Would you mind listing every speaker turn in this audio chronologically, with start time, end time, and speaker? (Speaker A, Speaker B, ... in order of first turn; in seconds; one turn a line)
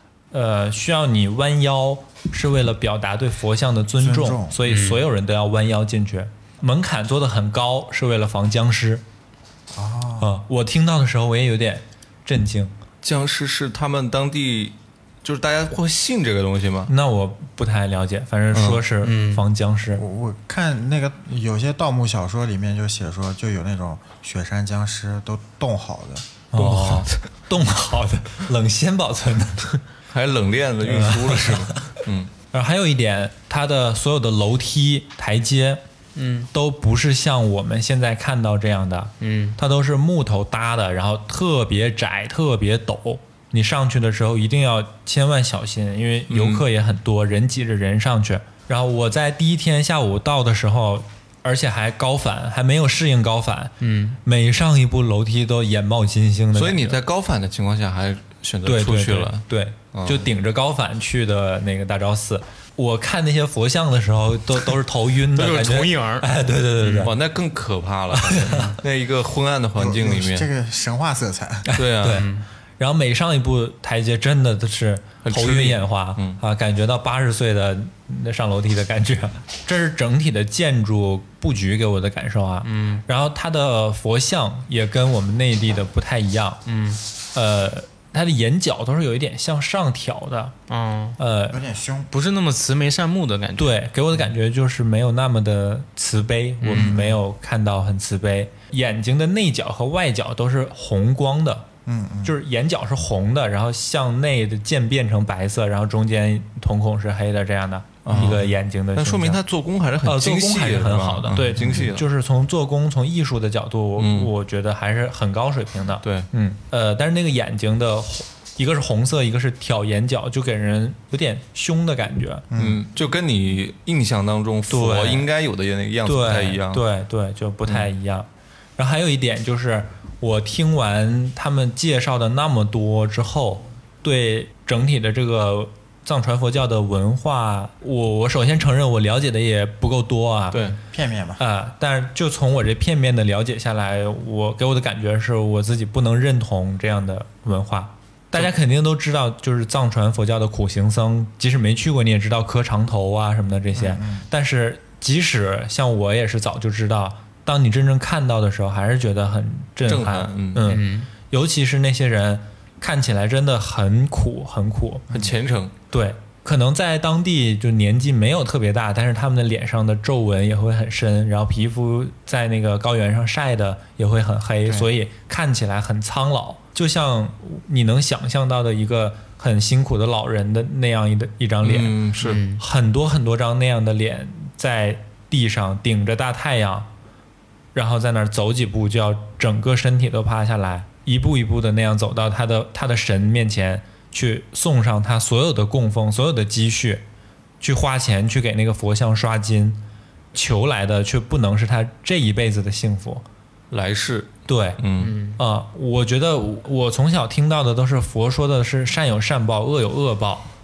Speaker A: 0.3-9.0
Speaker B: 4.0-4.6
Speaker C: 4.7-5.0
Speaker B: 9.7-10.3
Speaker A: 10.2-12.7
Speaker D: 13.0-16.9
Speaker A: 16.9-20.0
Speaker D: 18.5-18.8
Speaker C: 19.0-19.4
Speaker B: 20.0-26.2
Speaker A: 26.5-29.7
Speaker D: 26.5-27.1
Speaker D: 30.1-32.3
Speaker A: 30.8-31.9
Speaker A: 32.5-35.8
Speaker C: 36.1-36.5
Speaker A: 36.5-57.0
Speaker C: 39.2-39.6
Speaker D: 46.3-46.6
Speaker C: 53.8-54.2
Speaker D: 56.5-60.2
Speaker A: 58.6-67.1
Speaker C: 65.3-66.3
Speaker C: 66.8-67.1
Speaker D: 67.0-70.5
Speaker A: 68.1-68.7
Speaker C: 68.5-68.7
Speaker B: 69.7-71.7
Speaker A: 71.7-86.6
Speaker D: 71.7-72.3
Speaker C: 72.1-72.5
Speaker D: 75.2-76.4
Speaker C: 82.6-83.0
Speaker C: 86.7-87.0
Speaker A: 87.3-90.5
Speaker C: 90.7-91.2
Speaker A: 91.2-91.6
Speaker B: 91.5-92.1
Speaker C: 92.1-93.8
Speaker A: 93.5-101.7
Speaker C: 96.6-97.0
Speaker B: 96.7-97.2
Speaker B: 101.8-102.3
Speaker A: 102.2-109.4
Speaker D: 108.0-112.0
Speaker A: 110.0-122.5
Speaker D: 114.0-114.3
Speaker D: 116.0-116.3
Speaker B: 122.5-122.8
Speaker D: 122.5-126.8
Speaker A: 124.7-125.3
Speaker A: 126.0-140.7
Speaker D: 140.5-140.8
Speaker B: 140.9-141.4
Speaker A: 141.4-165.1
Speaker B: 153.7-154.3
Speaker D: 159.8-160.8
Speaker C: 160.6-161.1
Speaker B: 165.1-165.3
Speaker D: 165.1-165.7
Speaker A: 165.9-182.0
Speaker D: 181.6-182.4
Speaker C: 182.2-182.6
Speaker A: 182.6-186.9
Speaker A: 187.7-197.0
Speaker A: 197.6-199.8
Speaker A: 200.3-203.2
Speaker D: 203.7-205.2
Speaker A: 204.4-210.5
Speaker C: 205.0-205.4